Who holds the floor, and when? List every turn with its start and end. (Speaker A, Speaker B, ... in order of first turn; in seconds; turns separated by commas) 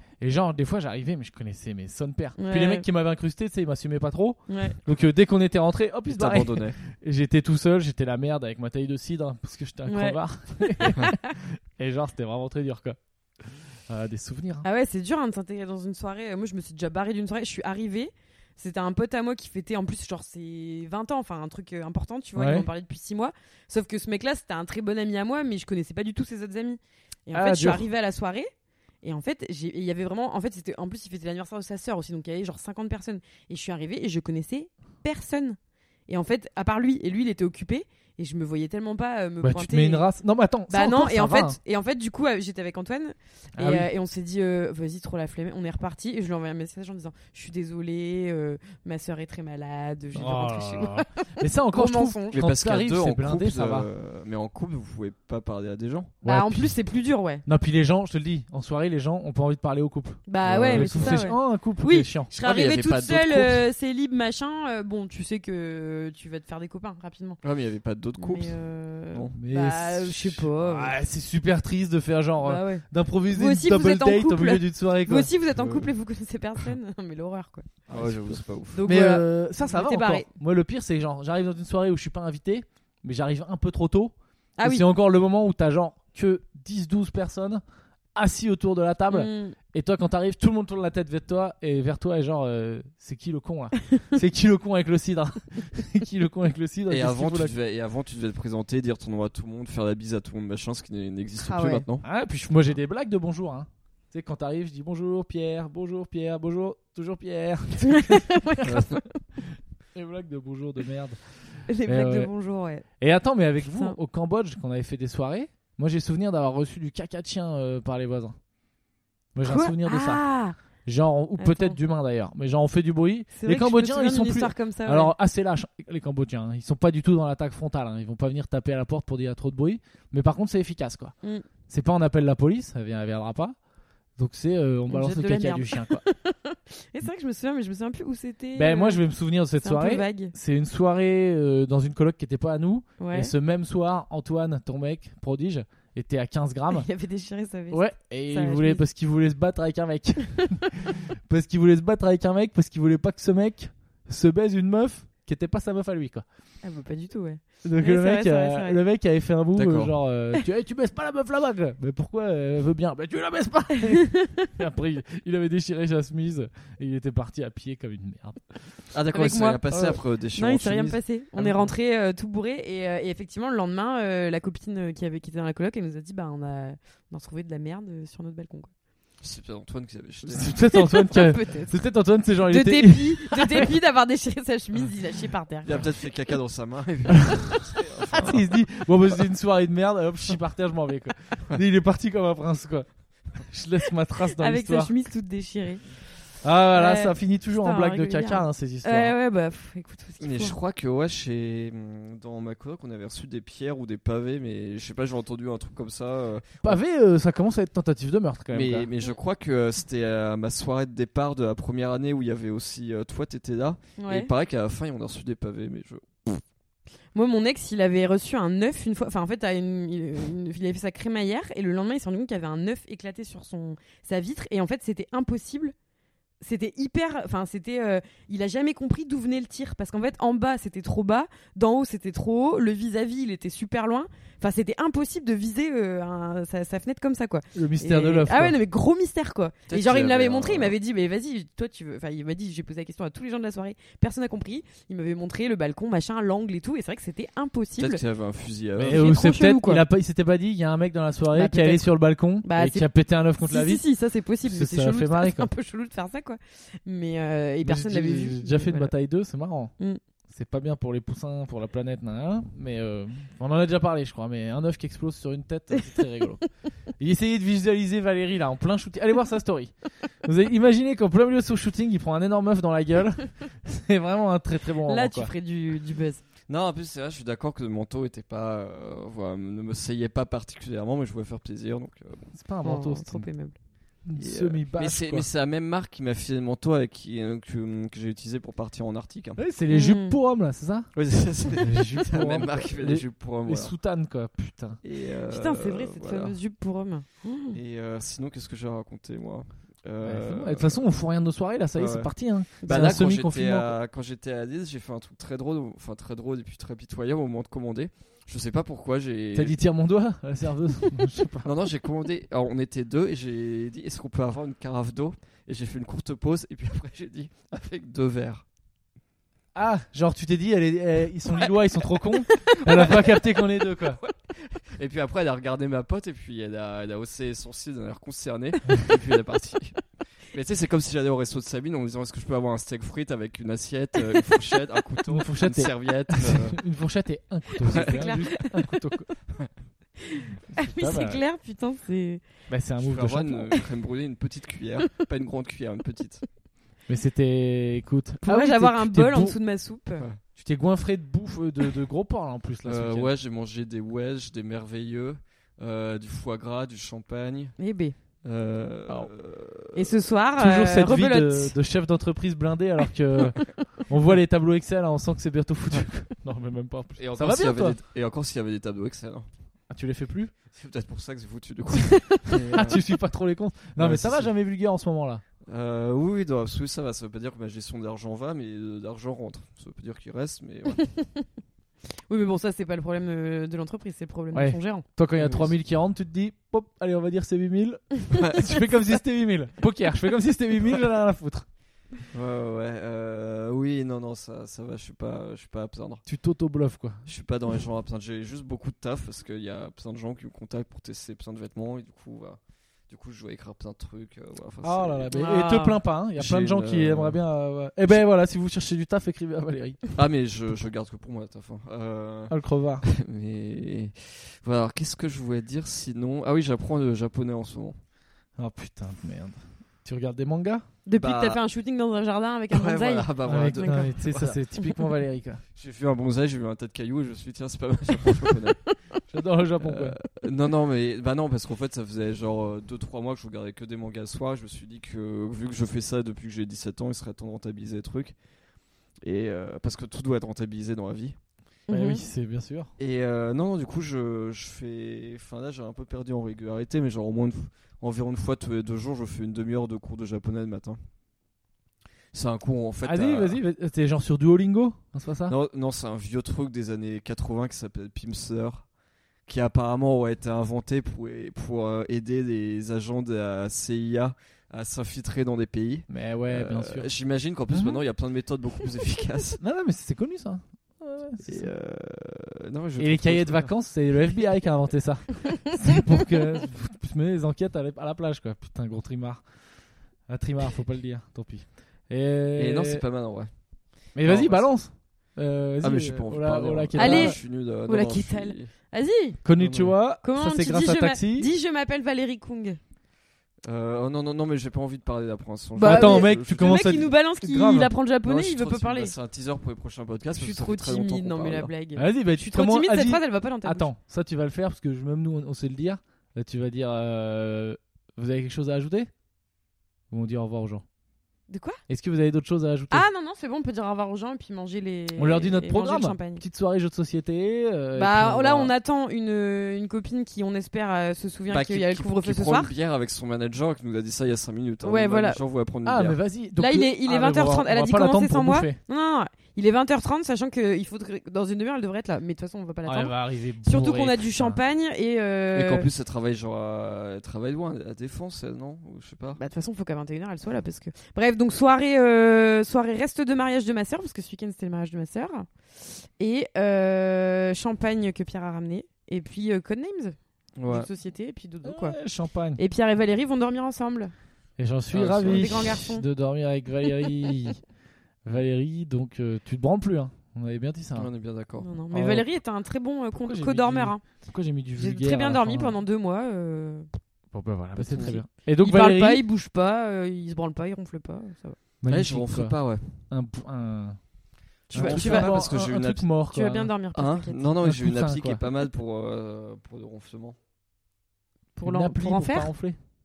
Speaker A: 0.2-14.7, Speaker B: 2.4-2.8, Speaker B: 4.5-4.8, Speaker C: 6.1-6.8, Speaker B: 9.9-10.2, Speaker B: 10.8-11.2, Speaker B: 14.6-28.5, Speaker A: 22.4-22.7, Speaker A: 27.3-27.8, Speaker B: 29.0-40.1, Speaker A: 39.4-41.6, Speaker B: 40.7-52.4, Speaker A: 43.5-43.9, Speaker A: 50.1-53.9, Speaker C: 52.3-56.1, Speaker A: 56.2-56.7, Speaker B: 56.2-57.4, Speaker A: 57.5-62.3, Speaker B: 60.3-67.4, Speaker C: 60.4-61.3, Speaker C: 62.3-63.6, Speaker C: 67.4-68.5, Speaker B: 68.2-71.0, Speaker A: 69.3-75.3, Speaker B: 72.4-77.8, Speaker C: 75.5-75.9, Speaker A: 77.9-78.3, Speaker C: 77.9-78.8, Speaker B: 78.7-80.3, Speaker A: 78.8-87.6, Speaker B: 84.6-84.8, Speaker A: 88.1-97.5, Speaker B: 89.1-89.5, Speaker C: 96.9-102.0, Speaker B: 101.5-101.8, Speaker A: 102.0-108.4, Speaker B: 107.8-109.2, Speaker C: 108.6-109.0, Speaker A: 109.9-111.2, Speaker B: 111.7-112.9, Speaker A: 111.8-112.3, Speaker A: 113.0-118.3, Speaker A: 119.3-120.2, Speaker B: 119.4-120.6, Speaker A: 120.8-131.1, Speaker B: 121.4-121.8, Speaker B: 123.3-125.1, Speaker A: 131.7-133.6, Speaker A: 134.2-136.0, Speaker B: 134.9-139.0, Speaker A: 138.5-146.8, Speaker B: 139.6-140.3, Speaker B: 143.0-143.3, Speaker B: 146.7-148.8, Speaker A: 147.7-156.2, Speaker B: 156.6-158.8, Speaker A: 157.6-168.7, Speaker C: 159.5-159.9, Speaker B: 163.9-164.5, Speaker C: 168.9-171.7, Speaker B: 169.1-178.7, Speaker C: 179.2-180.6, Speaker A: 180.2-183.7, Speaker B: 180.7-181.8, Speaker B: 182.4-186.1, Speaker C: 185.6-188.5, Speaker A: 188.1-194.9, Speaker B: 194.4-195.8, Speaker A: 196.4-199.1, Speaker B: 196.7-200.6, Speaker C: 200.2-206.8, Speaker A: 206.6-208.9, Speaker C: 208.5-216.4, Speaker B: 214.0-214.3, Speaker B: 217.1-225.7, Speaker B: 226.4-248.0, Speaker A: 237.5-238.6, Speaker C: 239.7-240.8, Speaker C: 247.8-249.2, Speaker A: 248.8-253.8, Speaker B: 248.9-249.8, Speaker B: 251.3-251.9, Speaker B: 252.4-252.9, Speaker B: 253.4-258.9, Speaker A: 254.4-255.5, Speaker A: 257.6-259.7, Speaker A: 260.3-269.7, Speaker A: 270.2-275.3, Speaker B: 274.9-276.2, Speaker C: 276.5-282.3, Speaker A: 282.3-283.3, Speaker B: 282.6-283.6, Speaker A: 284.0-285.3, Speaker C: 284.2-289.4, Speaker A: 289.4-290.9, Speaker B: 289.7-290.2, Speaker C: 290.9-293.7, Speaker A: 291.5-294.8, Speaker C: 294.8-296.4, Speaker B: 295.3-297.6, Speaker C: 297.5-300.8, Speaker A: 300.0-303.7, Speaker C: 301.7-309.6, Speaker B: 302.6-302.9, Speaker A: 309.3-311.5, Speaker C: 311.4-318.4, Speaker A: 319.5-324.0, Speaker C: 322.7-323.1, Speaker C: 324.0-336.6, Speaker A: 335.1-339.1, Speaker C: 337.6-338.2, Speaker B: 337.7-338.6, Speaker B: 340.0-342.2, Speaker A: 340.8-341.2, Speaker A: 342.5-343.5, Speaker C: 342.8-346.2, Speaker A: 346.9-349.4, Speaker B: 348.2-350.1, Speaker A: 350.3-353.1, Speaker C: 352.6-357.5, Speaker B: 357.6-357.9, Speaker C: 358.2-359.9, Speaker B: 359.7-361.5, Speaker A: 360.4-367.8, Speaker C: 367.0-369.3, Speaker A: 369.7-370.3, Speaker C: 370.5-372.8, Speaker B: 371.7-372.4, Speaker A: 372.5-375.2, Speaker C: 373.8-374.3, Speaker C: 375.4-380.8, Speaker B: 380.7-381.2, Speaker B: 382.1-384.8, Speaker A: 384.3-391.4, Speaker C: 385.2-385.5, Speaker C: 388.1-388.7, Speaker C: 392.1-396.0, Speaker A: 396.1-397.1, Speaker C: 397.1-405.1, Speaker A: 404.6-409.8, Speaker B: 405.1-405.8, Speaker C: 406.1-407.2, Speaker C: 409.9-417.7, Speaker A: 412.3-412.9, Speaker A: 418.4-420.6, Speaker B: 420.9-424.0, Speaker C: 421.0-421.4, Speaker C: 422.5-424.4, Speaker A: 423.3-425.4, Speaker B: 424.6-424.9, Speaker C: 425.5-428.6, Speaker B: 428.1-428.7, Speaker A: 429.1-430.0, Speaker C: 429.6-438.1, Speaker C: 439.0-441.1, Speaker B: 441.7-442.0, Speaker A: 441.7-442.7, Speaker C: 442.8-450.8, Speaker C: 452.1-453.4, Speaker A: 452.8-455.3, Speaker C: 455.3-458.7, Speaker C: 459.3-469.4, Speaker A: 465.9-466.9, Speaker A: 467.5-467.8, Speaker A: 469.4-471.5, Speaker C: 471.2-473.5, Speaker A: 472.8-479.2, Speaker A: 480.1-482.8, Speaker C: 482.4-483.3, Speaker A: 483.9-487.1, Speaker C: 484.0-484.5, Speaker C: 485.6-488.5, Speaker B: 486.8-489.2, Speaker A: 489.2-491.3, Speaker C: 489.4-489.8, Speaker B: 490.0-492.6, Speaker C: 493.4-496.9, Speaker A: 495.6-497.7, Speaker B: 495.6-498.9, Speaker C: 498.0-501.5, Speaker B: 500.1-503.7, Speaker A: 501.8-508.9, Speaker A: 509.9-510.6, Speaker B: 511.3-511.6, Speaker A: 511.7-512.8, Speaker B: 512.7-516.2, Speaker A: 515.0-518.5, Speaker B: 517.8-522.5, Speaker C: 521.3-526.0, Speaker B: 524.6-525.2, Speaker A: 525.6-528.6, Speaker B: 526.4-535.7, Speaker A: 532.6-534.4, Speaker C: 535.3-539.2, Speaker B: 539.2-545.3, Speaker B: 545.8-551.8, Speaker C: 550.4-550.7, Speaker A: 551.4-552.4, Speaker B: 552.4-553.9, Speaker A: 554.4-557.4, Speaker C: 554.7-555.6, Speaker B: 555.0-555.8, Speaker A: 558.0-560.9, Speaker C: 560.8-561.5, Speaker B: 561.4-563.8, Speaker A: 561.7-562.0, Speaker A: 563.0-565.5, Speaker B: 564.6-566.7, Speaker A: 567.1-569.0, Speaker C: 567.5-568.0, Speaker B: 567.8-571.4, Speaker A: 571.6-572.4, Speaker C: 571.7-572.8, Speaker A: 572.9-573.8, Speaker C: 574.5-575.9, Speaker A: 574.5-576.5, Speaker B: 574.5-575.3, Speaker B: 576.1-577.2, Speaker C: 576.7-580.1, Speaker A: 577.4-578.2, Speaker B: 581.4-582.3, Speaker A: 581.4-582.6